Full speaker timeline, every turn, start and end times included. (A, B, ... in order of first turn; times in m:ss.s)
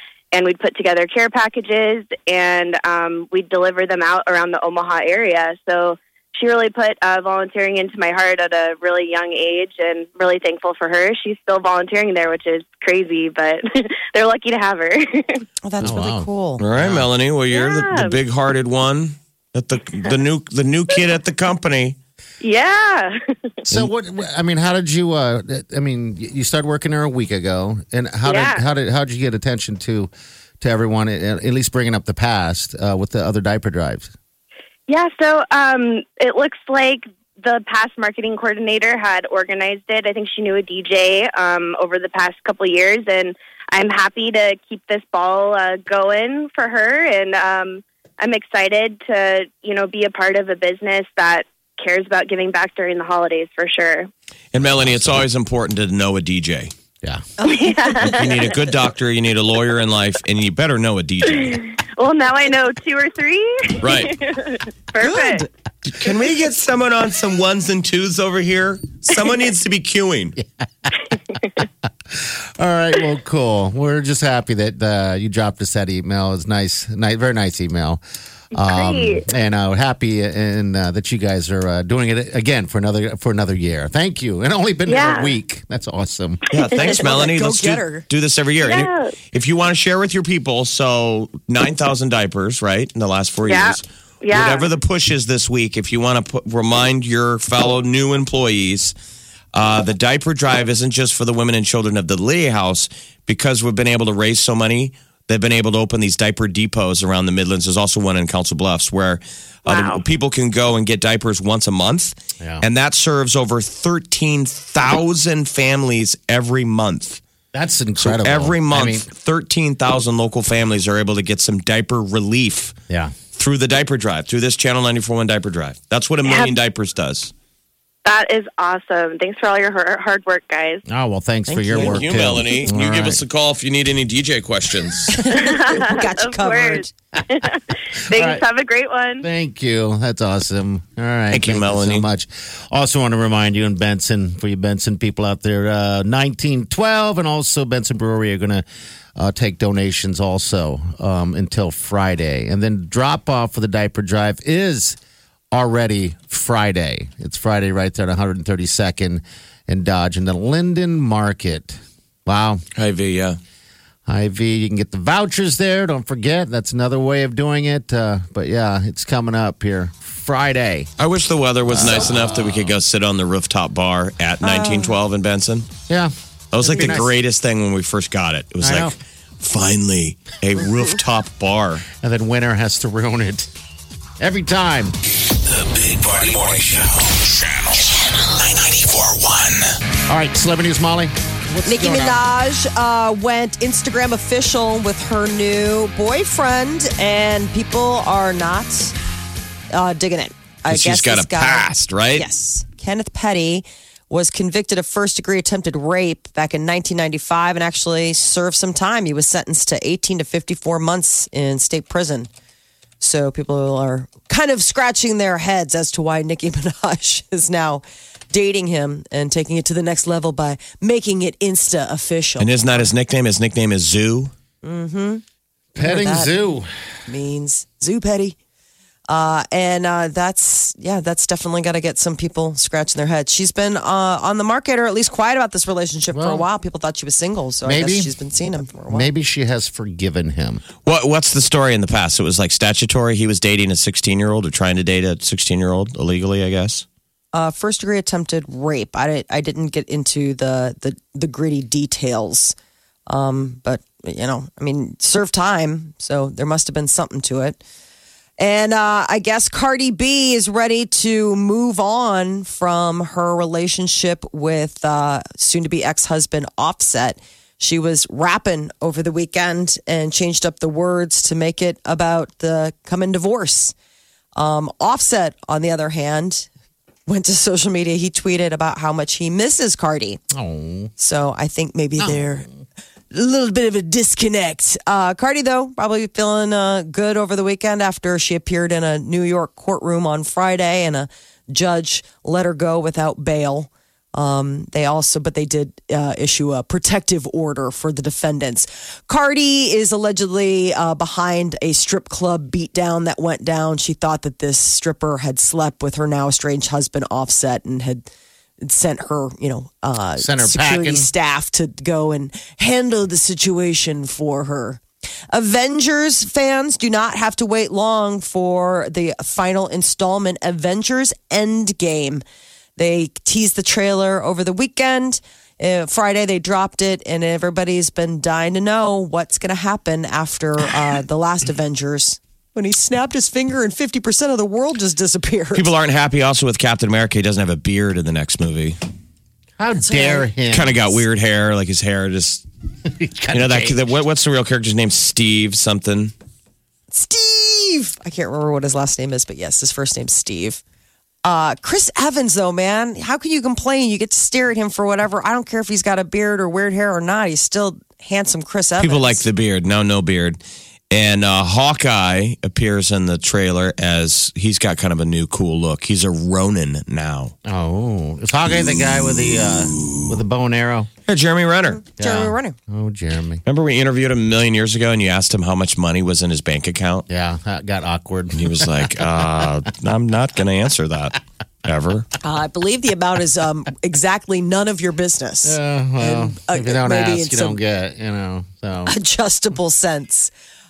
0:00.3-0:15.4 A
0:15.6-0:16.6 B
0:15.8-0:17.1 C
0:16.6-0:22.0 D
0:17.5-0:18.2 A
0:22.4-0:23.1 A
0:23.7-0:34.1 C
0:28.2-0:28.6 A
0:34.9-0:54.1 A
0:54.5-0:56.7 D
0:54.6-0:55.2 C
0:57.4-0:58.2 B
0:57.4-0:58.5 A
0:58.0-1:01.6 D
1:01.3-1:05.5 A
1:03.8-1:04.2 D
1:05.0-1:05.5 B
1:05.9-1:10.4 D
1:10.4-1:10.9 C
1:12.1-1:18.0 C
1:18.5-1:26.4 C
1:18.6-1:19.3 A
1:24.9-1:25.4 A
1:26.5-1:38.9 D
1:26.8-1:28.0 B
1:28.6-1:29.1 A
1:33.5-1:34.7 A
1:39.5-1:57.2 D
1:49.7-1:50.0 A
1:52.4-1:52.6 C
1:57.5-1:59.1 C
1:58.0-2:02.8 D
2:02.9-2:03.2 C
2:03.3-2:07.3 D
2:06.2-2:06.5 A
2:08.0-2:10.8 A
2:10.9-2:13.2 C
2:11.5-2:12.0 B
2:11.7-2:15.2 D
2:15.1-2:16.9 B
2:15.3-2:19.2 A
2:18.1-2:18.4 C
2:19.2-2:28.6 C
2:21.3-2:22.1 D
2:29.2-2:35.0 C
2:35.5-2:42.6 C
2:42.8-2:43.4 D
2:44.1-2:50.9 C
2:51.0-2:55.7 D
2:51.7-2:52.7 C
2:54.4-2:54.9 B
2:55.9-2:57.1 C
2:56.5-3:01.9 D
2:58.6-2:58.9 C
3:02.0-3:03.5 C
3:04.2-3:05.0 C
3:05.5-3:09.8 E
3:10.1-3:12.2 C
3:11.7-3:18.9 B
3:19.7-3:32.3 B
3:20.7-3:22.3 D
3:33.0-3:42.9 B
3:42.4-3:44.3 D
3:44.6-3:45.2 B
3:45.8-3:46.7 C
3:45.8-3:46.4 B
3:47.1-3:48.4 B
3:49.1-3:59.1 B
3:56.1-3:56.4 C
3:57.6-3:58.1 C
3:58.8-4:00.6 C
4:00.8-4:06.8 D
4:07.3-4:12.6 B
4:13.1-4:17.6 B
4:18.4-4:33.7 B
4:34.4-4:36.5 B
4:37.1-4:40.2 B
4:40.3-4:40.9 C
4:41.0-4:42.5 B
4:42.0-4:42.3 C
4:43.1-5:08.1 B
5:08.6-5:22.2 B
5:10.2-5:11.1 C
5:22.8-5:35.7 B
5:35.5-5:38.8 D
5:39.6-5:41.0 C
5:39.9-5:40.2 B
5:40.5-5:42.5 D
5:42.8-5:43.8 C
5:43.3-5:46.1 D
5:46.9-5:50.6 B
5:51.2-5:59.2 B
5:58.8-6:00.4 D
6:00.9-6:07.3 D
6:07.5-6:10.9 C
6:09.7-6:10.1 D
6:11.1-6:11.8 D
6:11.7-6:12.6 B
6:12.0-6:13.4 C
6:13.5-6:17.1 D
6:17.1-6:18.9 C
6:18.4-6:22.1 D
6:22.2-6:27.6 B
6:25.4-6:28.9 C
6:28.9-6:30.3 B